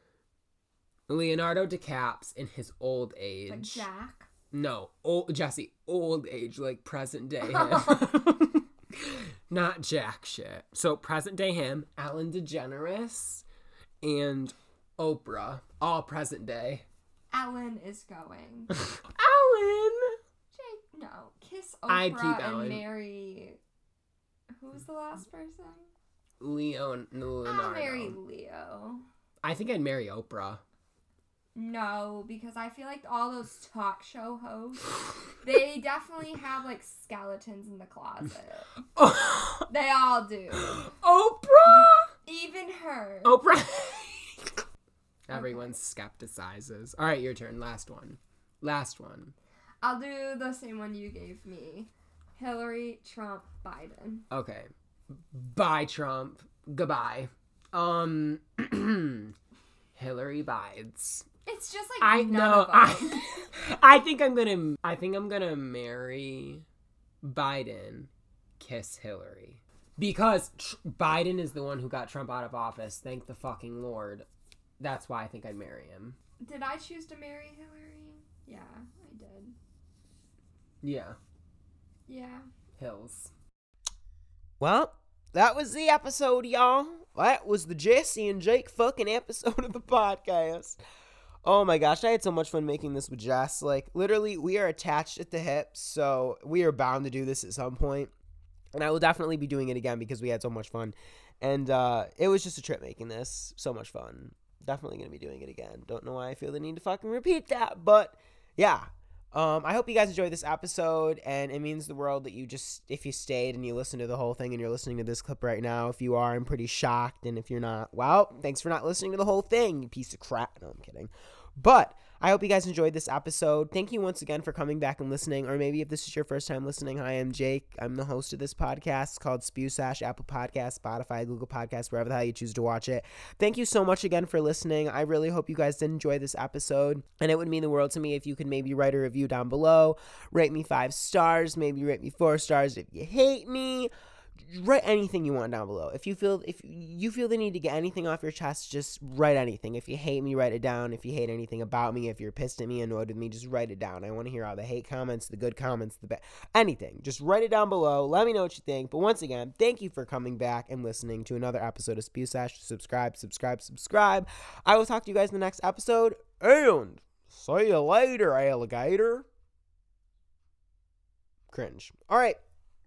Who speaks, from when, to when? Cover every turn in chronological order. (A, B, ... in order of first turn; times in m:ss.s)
0:01.1-0:03.9 A
0:03.5-0:04.3 B
0:04.5-0:13.4 A
0:14.0-0:16.8 A
0:17.3-0:18.7 B
0:18.7-0:20.2 A
0:20.5-0:23.6 B
0:21.9-0:22.8 A
0:24.6-0:25.9 B
0:26.4-0:28.2 A
0:27.4-0:29.0 B
0:29.4-0:30.6 A
0:31.5-0:38.7 B
0:39.0-0:39.7 A
0:39.7-0:40.9 B
0:40.6-0:42.1 A
0:41.6-0:43.6 B
0:43.2-0:44.6 A
0:45.3-0:49.3 A
0:45.3-0:45.6 B
0:49.8-0:54.2 B
0:54.3-0:59.3 A
1:00.0-1:01.3 A
1:01.4-1:03.5 B
1:02.0-1:06.6 A
1:07.2-1:14.2 A
1:14.8-1:16.2 A
1:16.4-1:19.5 B
1:20.8-1:21.2 A
1:22.1-1:22.4 B
1:22.8-1:23.3 A
1:24.6-1:30.8 C
1:31.4-1:38.1 C
1:38.7-2:49.3 C
2:51.5-2:52.4 C